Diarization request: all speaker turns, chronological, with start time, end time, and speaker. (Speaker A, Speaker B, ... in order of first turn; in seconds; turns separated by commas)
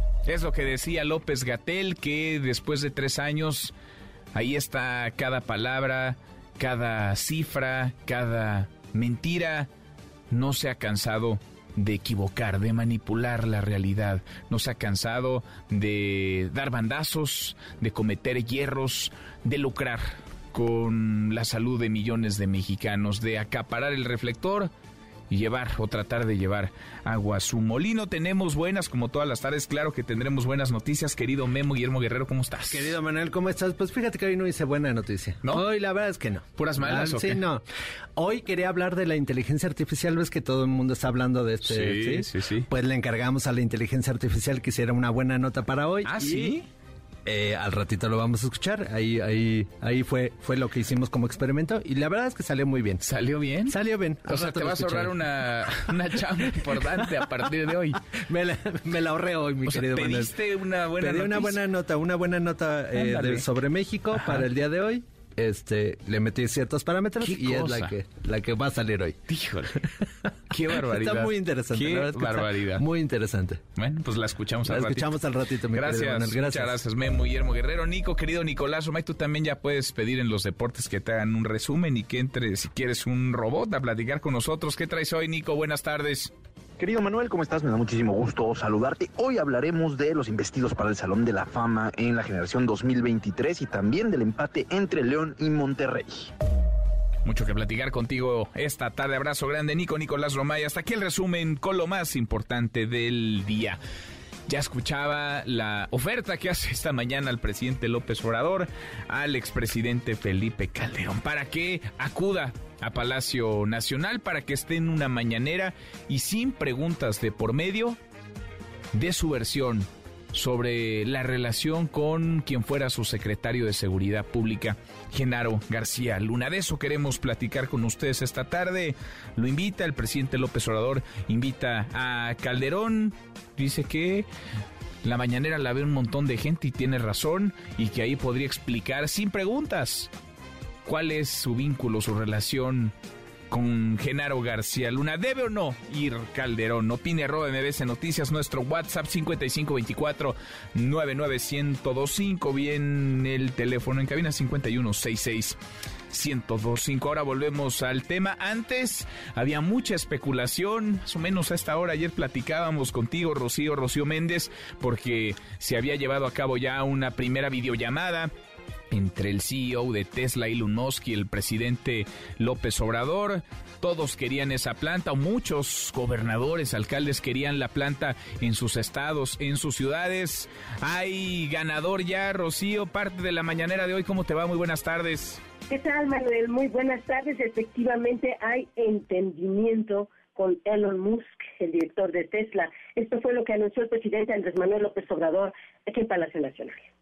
Speaker A: 0.2-3.7, Speaker A: 4.3-9.7, Speaker A: 10.3-24.7, Speaker A: 25.3-32.9, Speaker B: 32.7-37.6, Speaker A: 36.6-37.4, Speaker B: 38.1-46.5, Speaker A: 41.6-42.7, Speaker A: 46.0-46.6, Speaker B: 47.2-53.0, Speaker A: 53.0-58.0, Speaker B: 53.7-55.2, Speaker B: 58.3-60.3, Speaker A: 59.6-61.6, Speaker B: 61.0-69.2, Speaker A: 62.9-63.4, Speaker A: 64.1-64.5, Speaker A: 67.2-67.9, Speaker A: 69.3-69.8, Speaker A: 70.5-72.8, Speaker B: 70.7-73.6, Speaker A: 73.8-75.2, Speaker B: 74.7-76.8, Speaker A: 75.7-86.3, Speaker C: 86.8-96.3, Speaker A: 97.2-103.8, Speaker A: 104.5-118.0, Speaker A: 118.9-134.3, Speaker A: 135.0-140.1, Speaker A: 140.8-142.9, Speaker A: 143.5-155.6, Speaker A: 156.1-168.3, Speaker A: 168.9-185.4, Speaker D: 185.7-196.9